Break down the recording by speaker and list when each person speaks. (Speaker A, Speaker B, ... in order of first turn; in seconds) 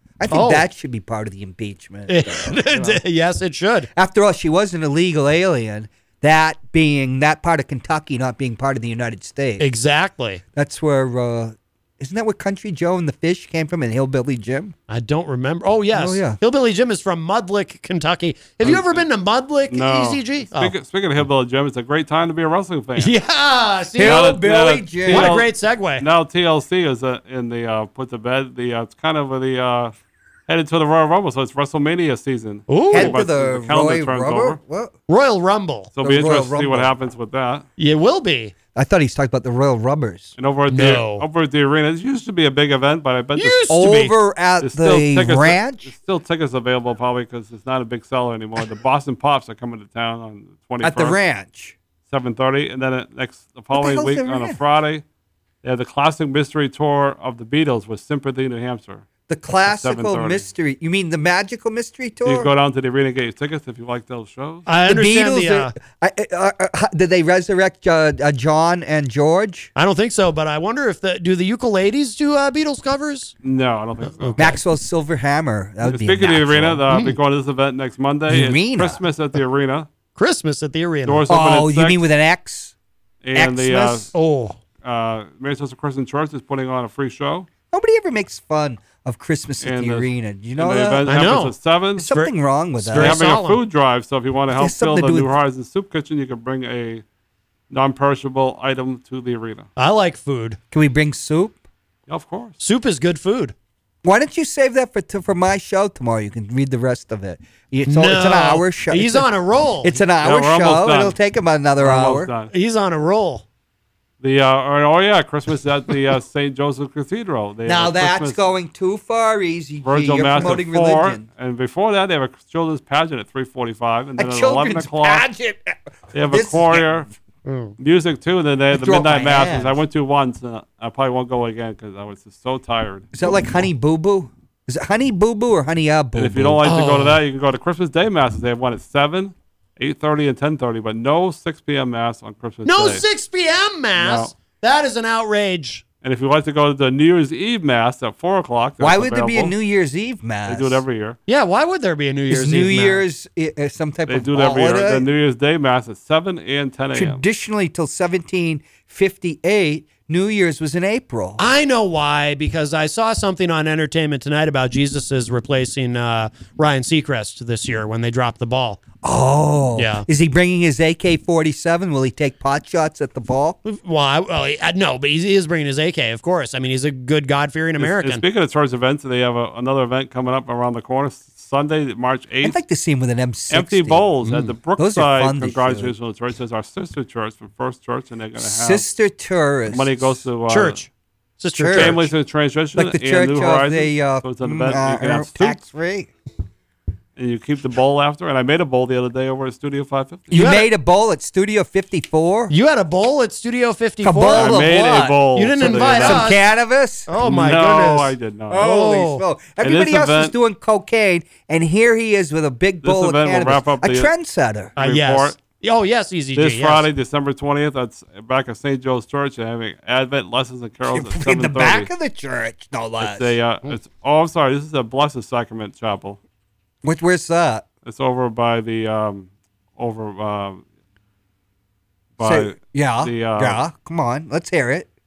Speaker A: 0.2-3.0, 3.9-9.7, 10.5-14.7, 15.9-16.4, 23.9-25.4, 32.9-35.0, 36.0-36.9, 38.7-40.3, 43.7-45.9, 50.8-51.7, 53.7-54.6, 59.3-62.5, 64.8-69.7, 74.4-77.1, 78.3-79.0, 81.3-82.7, 83.3-84.1, 87.7-91.4, 92.0-93.2, 94.5-95.3, 100.7-101.6, 104.0-112.3, 117.6-121.2, 124.2-127.1, 128.7-129.8, 133.1-136.7, 148.8-150.8, 152.3-155.1, 156.9-161.4, 169.0-173.6, 182.4-184.1, 184.8-185.9, 188.4-190.2, 191.5-192.1, 192.7-196.1, 200.3-202.5, 204.0-207.1, 208.5-214.8, 220.9-223.3, 226.8-227.7, 232.2-234.9
Speaker B: 0.3-0.6, 2.1-3.9, 9.6-10.4, 14.9-20.7, 23.0-24.4, 25.1-26.0, 32.7-33.1, 35.1-35.9, 37.8-38.5, 40.7-41.2, 43.3-44.1, 64.7-65.7, 69.7-73.3, 74.0-74.5, 80.2-81.2, 84.1-84.6, 91.0-91.5, 92.1-93.6, 99.8-100.6, 102.6-103.5, 107.8-110.0, 112.5-113.4, 127.5-127.7, 136.6-137.2, 142.6-145.8, 151.3-153.0, 161.4-168.8, 169.8-170.1, 173.6-178.2, 184.2-184.5, 190.5-190.9, 191.4-192.1, 200.3-200.7, 202.5-204.6, 205.3-206.4, 207.1-209.2, 214.8-216.9
Speaker C: 18.6-19.0, 19.7-23.1, 24.0-29.9, 30.5-34.6, 35.9-37.6, 40.4-43.9, 44.6-51.2, 52.1-55.0, 55.6-59.0, 59.6-60.5, 62.2-64.7, 73.4-74.5, 75.8-79.9, 81.0-82.0, 83.2-84.1, 84.8-87.5, 89.6-92.1, 92.9-97.0, 97.7-99.7, 102.1-102.6, 110.2-111.2, 111.8-112.5, 114.2-118.4, 119.8-125.2, 126.1-127.1, 127.8-133.1, 136.1-143.0, 143.9-144.3, 146.0-149.5, 150.5-151.2, 154.1-157.2, 177.8-182.6, 183.5-188.8, 189.7-190.8, 191.7-195.6, 197.2-200.4, 204.3-206.3, 207.2-208.6, 209.6-210.3, 212.8-214.1, 214.8-215.4, 216.3-221.9, 223.0-226.2, 227.8-230.6, 232.2-233.6